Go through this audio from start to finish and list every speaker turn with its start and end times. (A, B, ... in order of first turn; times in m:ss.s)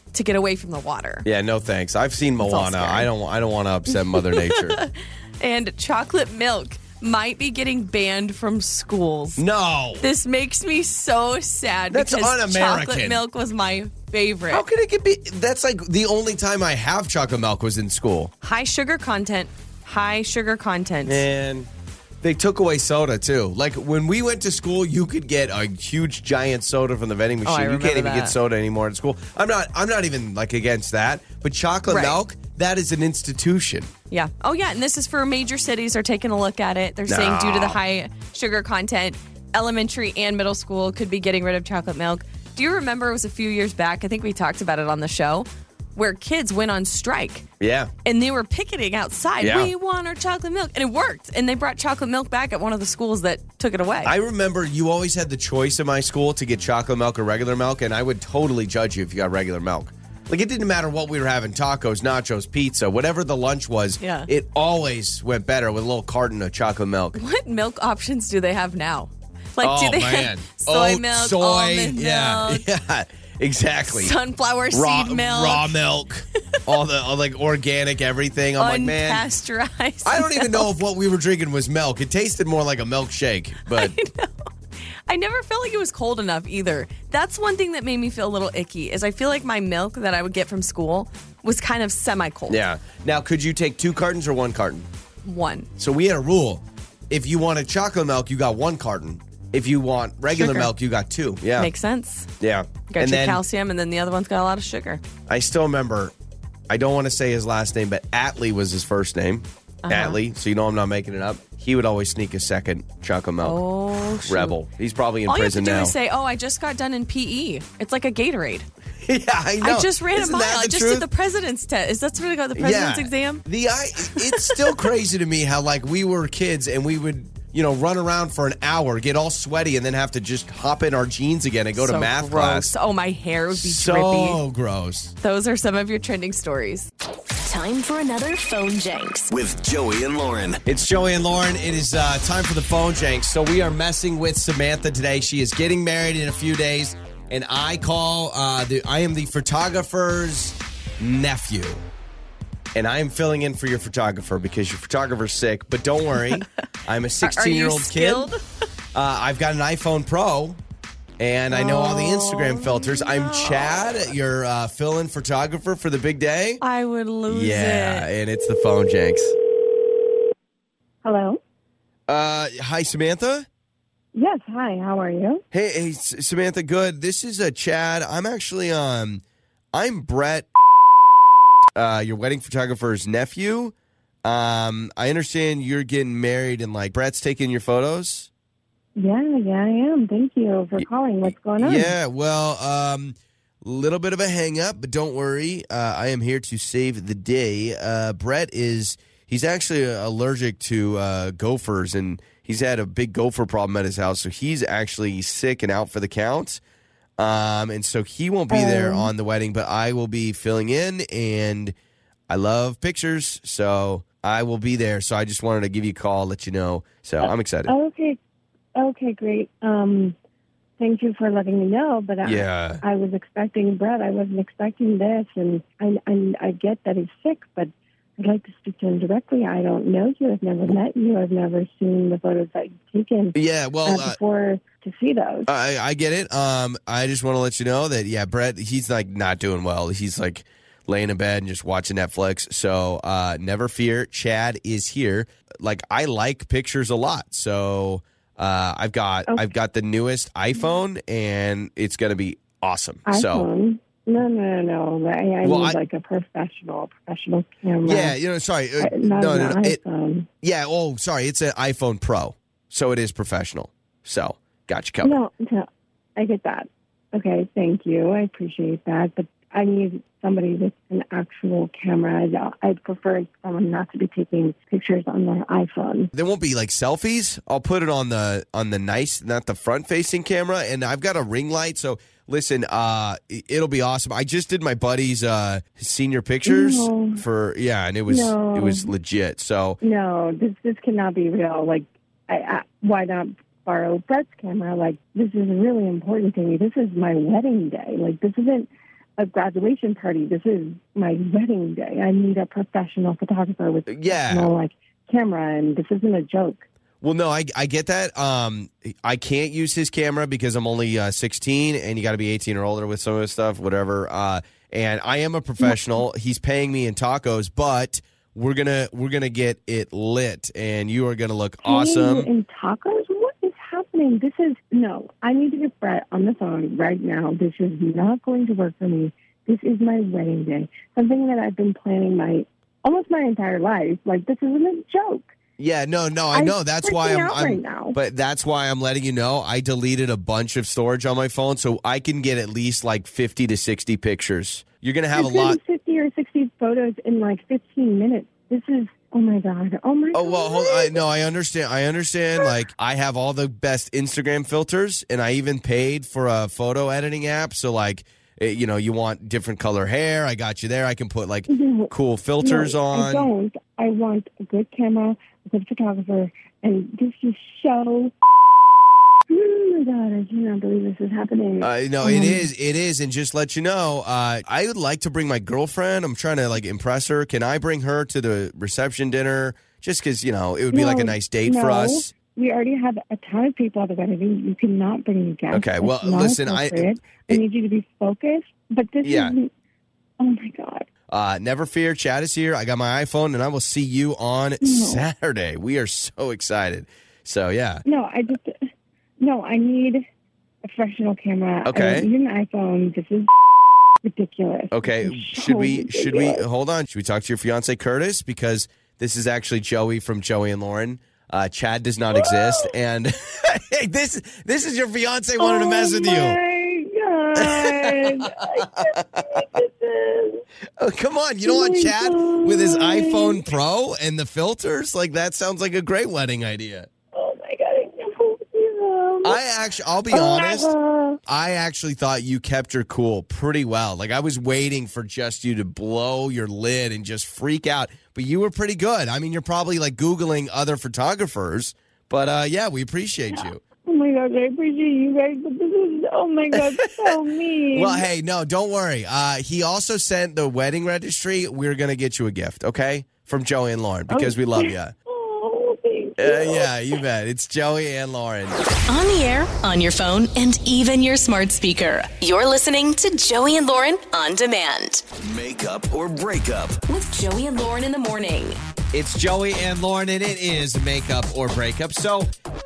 0:00.1-0:01.3 A
0:01.2-0:04.8 B
0:02.4-0:03.1 A
0:04.1-0:09.4 A
0:09.4-0:10.1 B
0:10.0-0:14.6 A
0:11.9-0:13.2 B
0:14.5-0:18.3 B
0:18.4-0:21.2 A
0:21.0-0:21.7 B
0:22.2-0:33.9 B
0:27.4-0:28.4 A
0:31.9-0:32.2 A
0:34.1-0:47.5 A
0:37.1-0:37.8 B
0:47.6-0:47.9 B
0:48.0-0:54.1 A
0:49.4-0:49.7 B
0:54.0-1:07.2 B
1:04.0-1:04.3 A
1:07.2-1:12.6 A
1:09.6-1:14.2 B
1:13.9-1:15.7 A
1:14.7-1:19.2 B
1:18.6-1:20.7 A
1:20.0-1:24.0 B
1:23.7-1:24.5 A
1:25.1-1:32.6 A
1:32.5-1:34.9 B
1:35.2-1:35.7 A
1:35.8-1:41.7 B
1:40.4-1:40.7 A
1:41.6-1:42.3 A
1:42.4-1:43.4 B
1:42.9-1:45.0 A
1:45.3-1:46.2 B
1:46.7-1:53.6 B
1:49.8-1:50.2 A
1:53.4-1:54.6 A
1:54.2-1:56.0 B
1:55.3-1:58.7 A
1:59.0-2:01.1 B
1:59.6-2:03.4 A
2:02.6-2:12.7 B
2:04.1-2:04.8 A
2:11.8-2:14.4 A
2:13.5-2:15.1 B
2:15.2-2:16.9 A
2:17.4-2:19.3 C
2:19.3-2:20.6 D
2:20.6-2:31.8 B
2:32.8-2:38.3 B
2:37.2-2:38.4 A
2:38.9-2:40.6 B
2:41.2-2:46.6 B
2:41.5-2:43.8 A
2:46.6-2:48.1 A
2:47.3-2:49.4 B
2:51.0-2:51.4 E
2:52.1-2:53.5 B
2:54.2-2:55.4 E
2:55.5-2:59.2 B
2:59.7-3:00.5 B
3:01.8-3:08.3 B
3:09.0-3:11.9 E
3:10.8-3:26.6 B
3:27.2-3:31.8 B
3:28.5-3:29.1 E
3:32.3-3:37.7 B
3:37.7-3:38.2 E
3:38.8-3:40.2 E
3:40.8-3:55.5 E
3:42.2-3:42.8 B
3:53.4-3:54.2 B
3:55.5-4:13.5 B
4:13.1-4:18.2 E
4:15.4-4:15.8 B
4:17.8-4:19.8 B
4:18.8-4:20.3 E
4:20.4-4:25.2 B
4:25.0-4:36.1 E
4:36.1-4:49.8 B
4:46.4-4:47.2 E
4:48.1-4:48.9 E
4:49.8-4:58.7 E
4:59.2-5:06.7 E
5:03.9-5:04.5 B
5:07.0-5:22.3 B
5:21.6-5:35.3 E
5:35.6-5:45.6 B
5:36.3-5:38.0 E
5:45.1-5:51.0 E
5:50.1-6:03.3 B
6:01.5-6:08.2 E
6:09.3-6:12.4 E
6:11.6-6:22.1 B
6:20.7-6:29.5 E
6:25.5-6:27.4 B
6:29.0-6:29.4 B
6:30.2-6:30.9 E
6:31.1-6:37.8 B
6:34.6-6:35.0 E
6:37.9-6:38.6 E
6:39.2-6:40.1 E
6:40.7-6:43.3 E
6:41.6-6:42.1 B
6:44.0-6:46.4 E
6:44.7-6:56.4 B
6:52.1-6:52.7 E
6:55.4-7:00.4 E
6:57.4-6:59.5 B
7:00.8-7:06.9 B
7:01.4-7:03.4 E
7:07.1-7:09.4 E
7:09.2-7:10.8 B
7:10.1-7:11.2 E
7:11.3-7:23.6 B
7:23.3-7:28.1 E
7:26.5-7:27.2 B
7:27.7-7:35.0 B
7:34.1-7:36.7 E
7:36.2-7:38.6 B
7:38.9-7:45.0 C
7:45.2-7:46.8 D
7:46.9-7:48.6 C
7:48.9-7:52.3 B